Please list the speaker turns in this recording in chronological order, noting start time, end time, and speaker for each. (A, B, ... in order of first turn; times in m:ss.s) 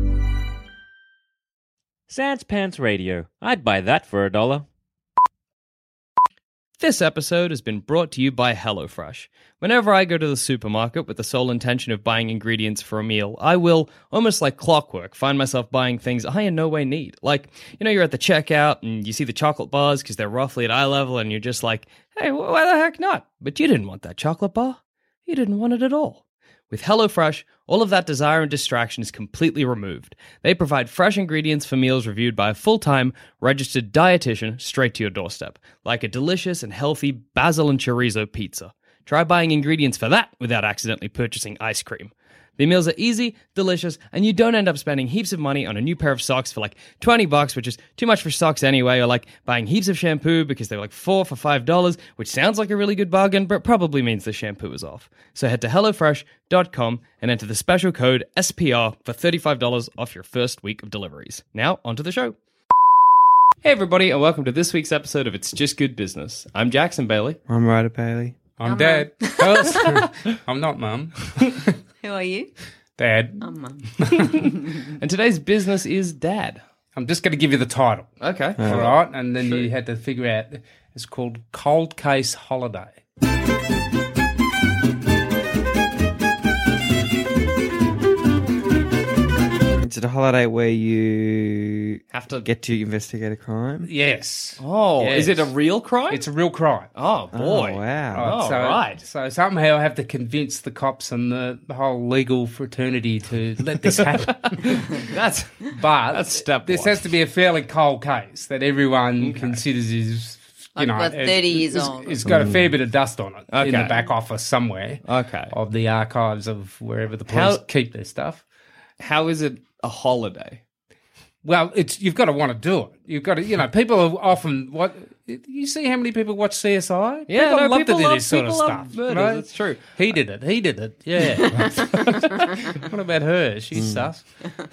0:02.1-0:04.6 A
0:06.8-1:02.3 B
1:03.6-1:07.4 B
1:07.5-1:08.4 C
1:08.6-1:11.7 D
1:08.6-1:10.0 E
1:12.0-1:12.5 E
1:13.0-1:13.4 D
1:13.4-1:14.9 E
1:14.0-1:14.4 D
1:15.0-1:16.6 B
1:16.9-1:18.1 D
1:18.2-1:19.7 B
1:18.6-1:18.9 C
1:18.6-1:23.0 D
1:29.7-1:33.9 C
1:32.1-1:32.5 B
1:33.8-1:35.5 D
1:34.6-1:36.2 B
1:36.1-1:36.9 D
1:36.9-1:39.0 B
1:37.3-1:38.4 C
1:38.1-1:44.9 D
1:43.9-1:47.0 B
1:45.7-1:58.4 D
1:49.2-1:49.6 B
1:50.8-1:52.2 E
1:52.2-1:52.7 C
1:53.5-1:54.0 B
1:55.0-1:55.5 B
1:57.3-1:57.6 B
1:59.0-2:00.6 B
2:01.4-2:14.2 D
2:07.3-2:10.0 B
2:11.6-2:12.1 B
2:13.7-2:14.1 C